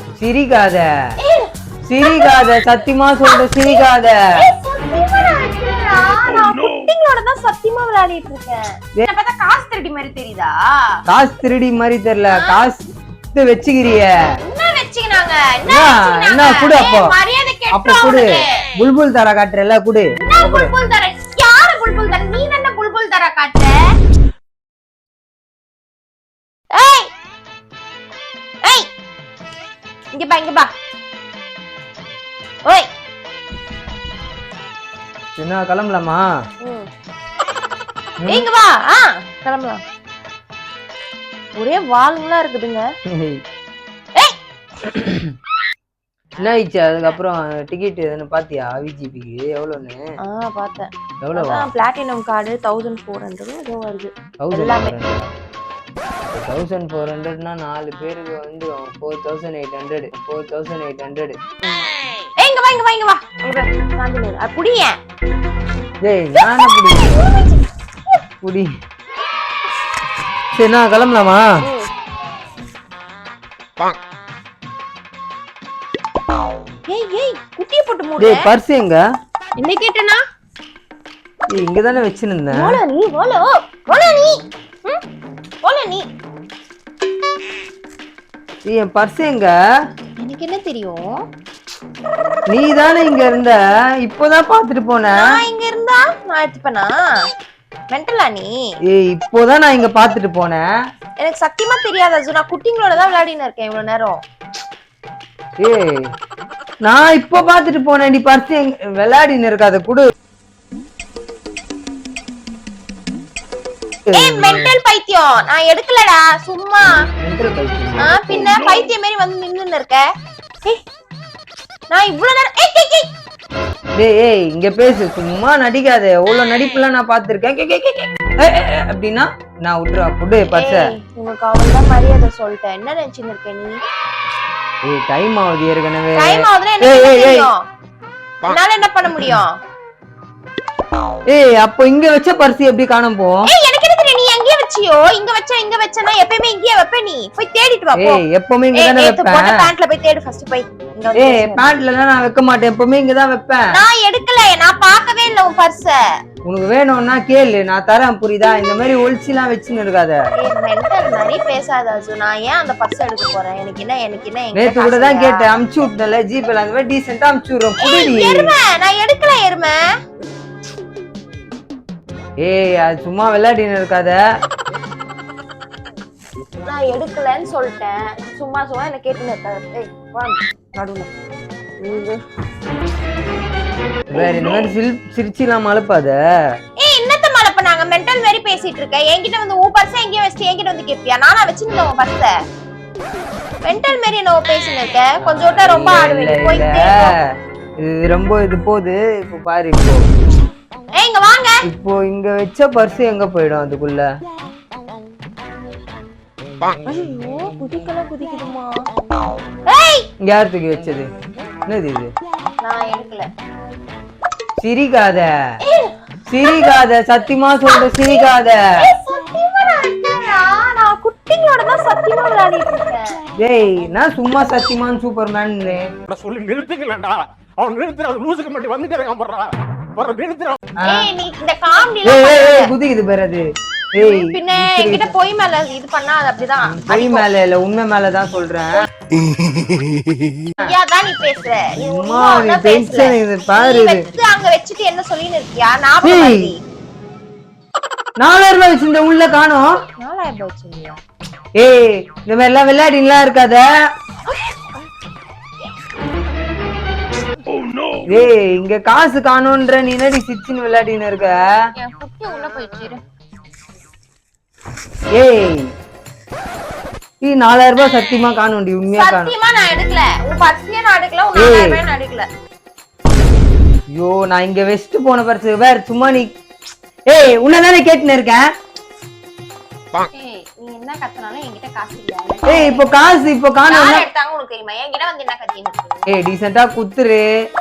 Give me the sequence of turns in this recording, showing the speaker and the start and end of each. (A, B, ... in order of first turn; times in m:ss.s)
0:00.2-0:00.9 A
0:01.2-0:02.6 B
0:01.9-0:04.3 A
0:03.2-0:10.6 B
0:11.1-0:12.8 A
0:12.3-0:12.6 B
0:13.3-0:14.2 A
0:14.4-0:18.6 B
0:15.7-0:17.2 A
0:17.7-0:20.7 A
0:20.2-0:23.7 B
0:26.7-0:27.1 B
0:28.6-0:28.9 B
0:30.1-0:30.7 B
0:35.4-0:36.2 A
0:36.6-0:36.9 B
0:38.3-0:39.8 B
0:41.6-0:42.9 B
0:43.1-0:43.4 A
0:44.8-0:45.4 A
0:46.4-0:50.0 A
0:50.2-0:55.0 B
0:51.2-0:51.7 A
0:54.4-0:55.3 A
0:56.3-1:01.4 A
1:01.6-1:05.0 B
1:06.0-1:07.3 A
1:06.6-1:07.6 B
1:08.4-1:08.7 A
1:10.5-1:11.4 A
1:11.6-1:11.9 B
1:16.9-1:18.5 B
1:18.2-1:19.0 A
1:19.6-1:20.2 B
1:21.5-1:22.8 A
1:22.5-1:25.0 B
1:25.6-1:26.1 B
1:28.7-1:29.5 A
1:30.2-1:31.3 B
1:32.5-1:35.3 A
1:35.2-1:37.0 B
1:37.9-1:38.5 B
1:38.9-1:40.7 A
1:41.2-1:44.2 B
1:45.6-1:46.1 A
1:46.8-1:50.1 A
1:54.1-1:54.7 A
1:54.1-1:56.9 B
1:57.2-1:58.8 A
1:58.0-2:00.0 B
2:01.9-2:03.1 B
2:04.0-2:10.9 A
2:10.5-2:13.8 B
2:14.9-2:17.5 A
2:16.2-2:17.7 B
2:18.4-2:19.6 B
2:21.3-2:23.5 A
2:23.5-2:28.2 B
2:28.0-2:29.7 A
2:28.7-2:31.6 B
2:31.2-2:33.7 A
2:33.7-2:36.0 B
2:36.4-2:40.2 A
2:40.4-2:45.6 B
2:44.6-2:48.5 A
2:47.8-2:49.8 B
2:52.4-2:54.2 A
2:56.6-3:01.1 B
3:01.8-3:02.2 B
3:04.1-3:06.2 A
3:06.8-3:12.3 B
3:13.6-3:17.2 B
3:15.2-3:17.2 A
3:17.8-3:20.1 A
3:21.0-3:21.6 B
3:21.6-3:24.1 A
3:26.9-3:28.8 B
3:29.7-3:30.1 B
3:30.2-3:31.1 A
3:31.7-3:32.1 A
3:32.6-3:33.3 B
3:34.6-3:35.3 A
3:35.6-3:36.8 B
3:36.3-3:38.6 A
3:37.7-3:43.2 B
3:43.4-3:45.9 A
3:46.1-3:50.6 C
3:50.8-3:51.1 A
3:50.8-3:52.7 B
3:52.0-3:55.1 A
3:54.0-3:57.3 B
3:56.6-3:58.9 A
4:00.6-4:06.6 B
4:01.8-4:04.0 A
4:06.0-4:06.5 A
4:08.2-4:09.7 A
4:10.0-4:11.0 B
4:11.6-4:13.7 A
4:18.1-4:21.5 A
4:21.8-4:23.0 B
4:25.1-4:25.7 A
4:27.2-4:29.3 A
4:28.9-4:32.3 B
4:31.4-4:31.8 A
4:33.9-4:36.3 A
4:37.1-4:38.5 A
4:40.0-4:46.1 B
4:42.5-4:44.0 A
4:46.1-4:47.3 A